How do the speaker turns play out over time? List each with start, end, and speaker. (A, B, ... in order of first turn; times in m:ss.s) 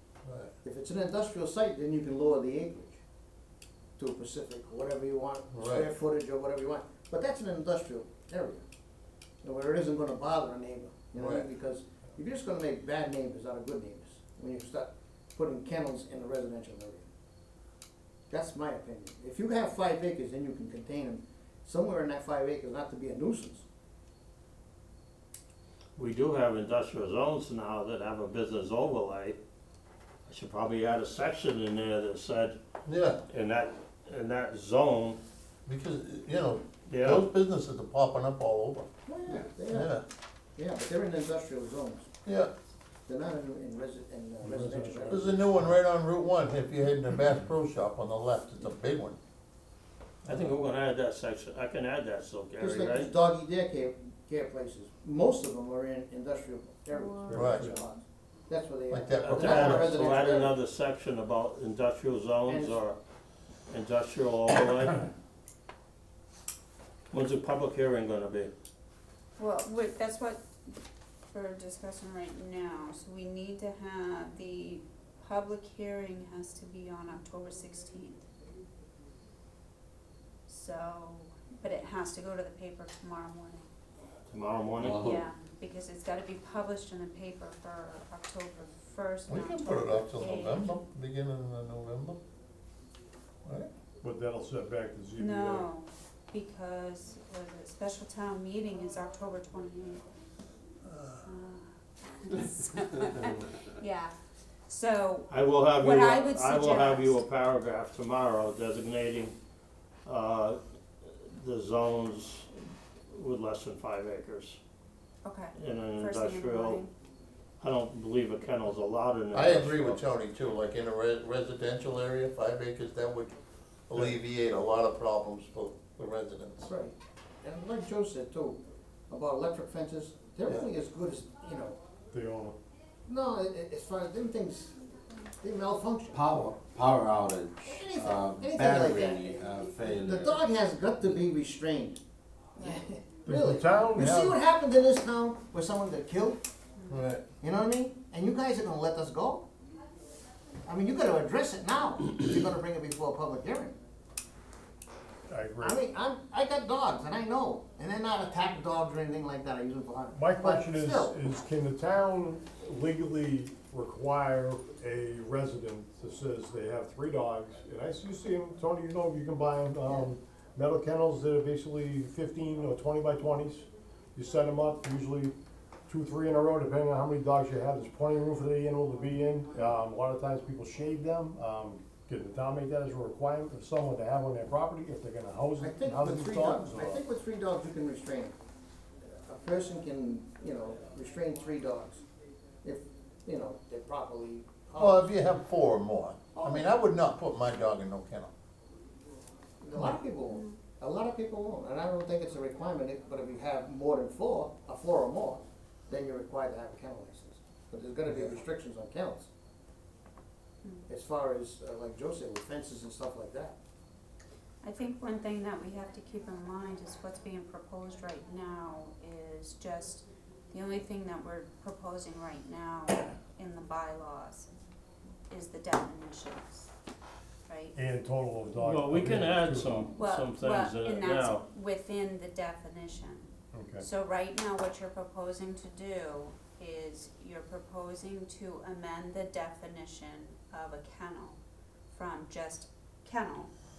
0:00.3-0:00.5 A
0:00.6-0:03.0 B
0:04.0-0:08.6 B
0:05.5-0:05.9 A
0:09.4-0:17.1 B
0:11.2-0:11.4 A
0:18.3-0:23.7 B
0:26.0-0:29.4 C
0:30.3-0:32.6 C
0:32.9-0:33.2 A
0:33.3-0:35.2 C
0:35.7-0:38.9 A
0:36.9-0:37.3 C
0:39.1-0:40.0 B
0:39.7-0:40.0 A
0:40.6-0:42.1 B
0:42.2-0:42.5 A
0:43.1-0:45.4 B
0:44.4-0:45.7 D
0:45.1-0:49.2 A
0:50.2-0:53.1 C
0:52.6-1:00.6 B
0:56.9-0:57.4 E
0:57.3-0:57.8 D
0:57.3-0:57.8 A
0:58.9-1:00.1 A
0:59.2-1:03.0 C
1:02.4-1:02.8 B
1:03.7-1:05.1 C
1:07.1-1:08.5 C
1:09.4-1:10.4 E
1:11.3-1:18.3 E
1:20.5-1:23.7 E
1:24.3-1:25.1 C
1:24.8-1:25.2 F
1:25.0-1:30.8 E
1:29.3-1:32.2 A
1:34.0-1:35.7 D
1:35.2-1:40.0 E
1:41.2-1:44.1 E
1:44.7-1:47.2 E
1:45.3-1:49.4 C
1:50.0-1:54.6 C
1:55.2-1:56.9 E
1:55.6-1:56.8 C
1:57.6-2:00.0 C
1:59.3-2:03.4 A
2:03.9-2:06.7 A
2:06.7-2:11.8 B
2:12.1-2:12.6 D
2:13.1-2:14.8 B
2:15.4-2:16.2 B
2:16.1-2:20.4 F
2:17.6-2:22.0 B
2:22.6-2:26.4 B
2:23.3-2:24.4 D
2:24.0-2:24.3 A
2:26.9-2:27.2 A
2:27.4-2:29.5 B
2:30.6-2:33.8 B
2:35.3-2:35.8 D
2:35.6-2:41.2 B
2:40.1-3:07.0 D
3:05.6-3:08.4 B
3:09.2-3:12.0 B
3:12.6-3:15.1 B
3:14.8-3:18.3 A
3:16.4-3:16.7 B
3:19.6-3:29.3 B
3:20.3-3:20.6 E
3:30.9-3:33.6 B
3:34.6-3:44.5 E
3:45.3-3:46.7 E
3:47.5-3:47.7 E
3:47.8-3:49.9 D
3:48.6-3:51.4 C
3:50.0-4:01.4 E
3:53.5-3:53.9 D
4:01.9-4:03.5 E